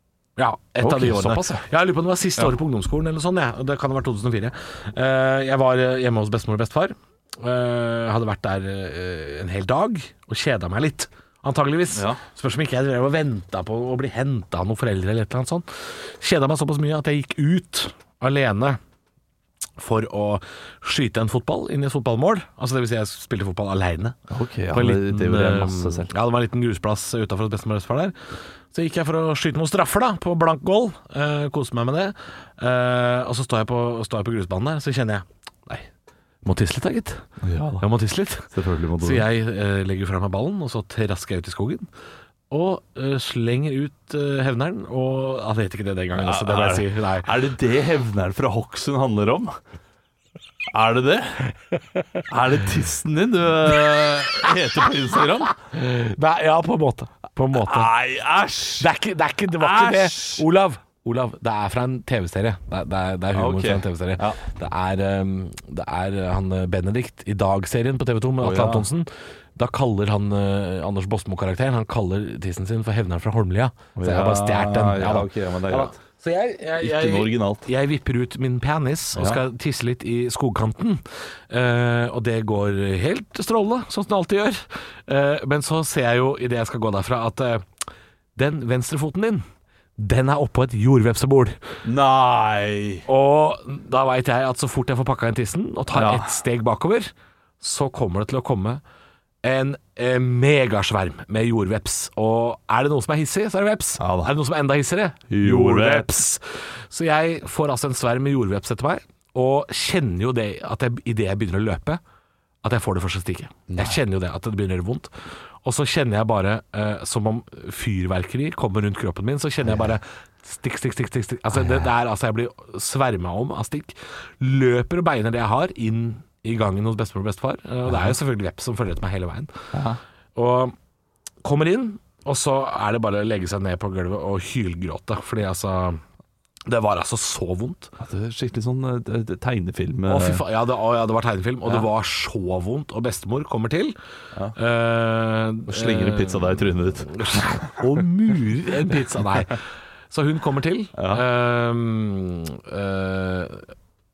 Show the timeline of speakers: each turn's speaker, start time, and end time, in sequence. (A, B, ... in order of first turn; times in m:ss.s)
0:00.4-0:18.8 A
0:00.8-0:01.6 B
0:11.9-0:12.2 B
0:19.8-0:24.2 A
0:24.3-0:26.1 B
0:24.7-0:28.2 A
0:28.7-0:35.8 A
0:36.4-0:37.2 A
0:37.4-0:37.8 B
0:37.8-0:41.9 A
0:38.5-0:39.3 B
0:42.5-0:47.3 A
0:46.1-0:49.6 B
0:50.7-0:51.5 B
0:52.3-0:55.5 B
0:55.7-0:57.9 A
0:57.5-0:58.9 B
0:58.8-1:27.6 A
0:59.5-1:00.4 B
1:03.3-1:04.4 B
1:08.4-1:08.9 B
1:14.0-1:16.0 B
1:16.8-1:17.6 B
1:19.2-1:19.4 B
1:28.3-1:29.4 A
1:30.0-1:31.6 A
1:31.8-1:33.0 B
1:33.0-1:38.8 A
1:35.9-1:36.3 B
1:39.4-1:52.0 A
1:44.0-1:44.3 B
1:45.3-1:46.1 B
1:52.6-1:55.1 A
1:53.7-1:54.0 B
1:55.6-2:09.5 A
2:07.9-2:08.1 B
2:09.7-2:10.0 B
2:10.3-2:10.7 A
2:11.4-2:16.0 A
2:16.6-2:17.9 A
2:18.0-2:20.4 B
2:20.1-2:24.0 A
2:24.5-2:33.7 A
2:25.7-2:27.8 B
2:31.0-2:31.2 B